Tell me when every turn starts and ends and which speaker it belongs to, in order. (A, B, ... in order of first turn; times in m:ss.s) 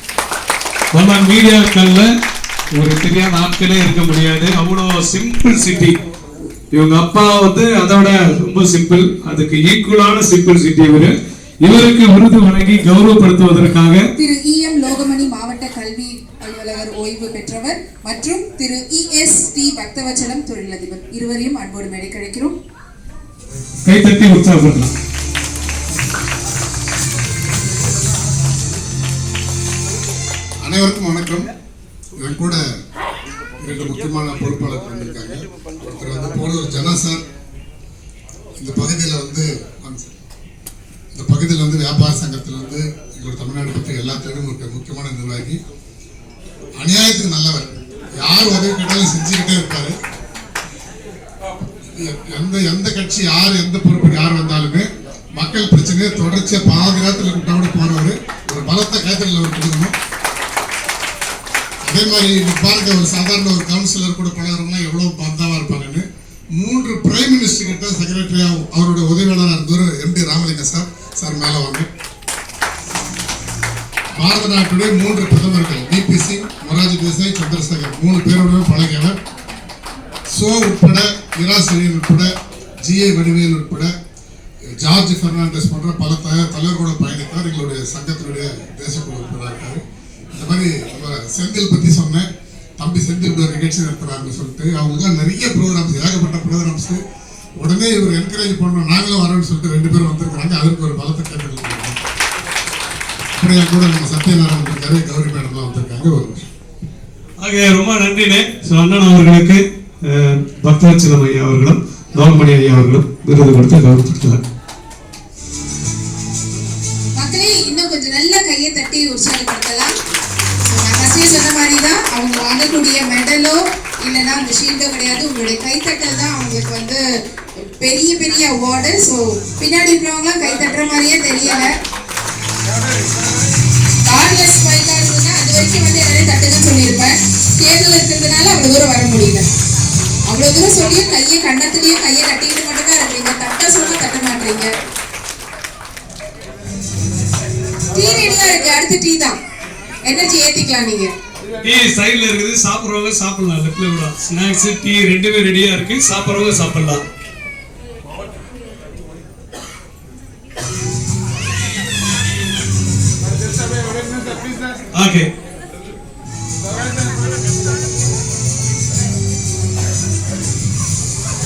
0:00.9-0:02.1 A
0:02.8-0:06.0 A
0:06.7-0:14.1 A
0:14.2-0:22.5 B
0:23.8-0:24.9 A
0:30.6-0:31.5 C
0:32.2-0:32.6 C
0:33.6-0:37.2 C
0:38.6-0:40.2 C
0:41.2-0:45.6 C
0:46.8-0:50.0 C
0:52.0-1:00.0 C
1:01.8-1:11.9 C
1:14.2-1:19.2 C
1:20.3-1:22.3 C
1:22.8-1:23.9 C
1:24.8-1:29.8 C
1:30.3-1:32.3 C
1:32.8-1:37.0 C
1:37.6-1:42.0 C
1:43.4-1:46.5 C
1:47.4-1:54.4 A
1:57.2-1:59.9 B
2:00.6-2:07.0 B
2:07.6-2:11.7 B
2:14.1-2:19.4 B
2:20.3-2:24.7 B
2:27.9-2:29.4 B
2:30.0-2:31.1 B
2:31.6-2:37.0 A
2:44.9-2:45.3 A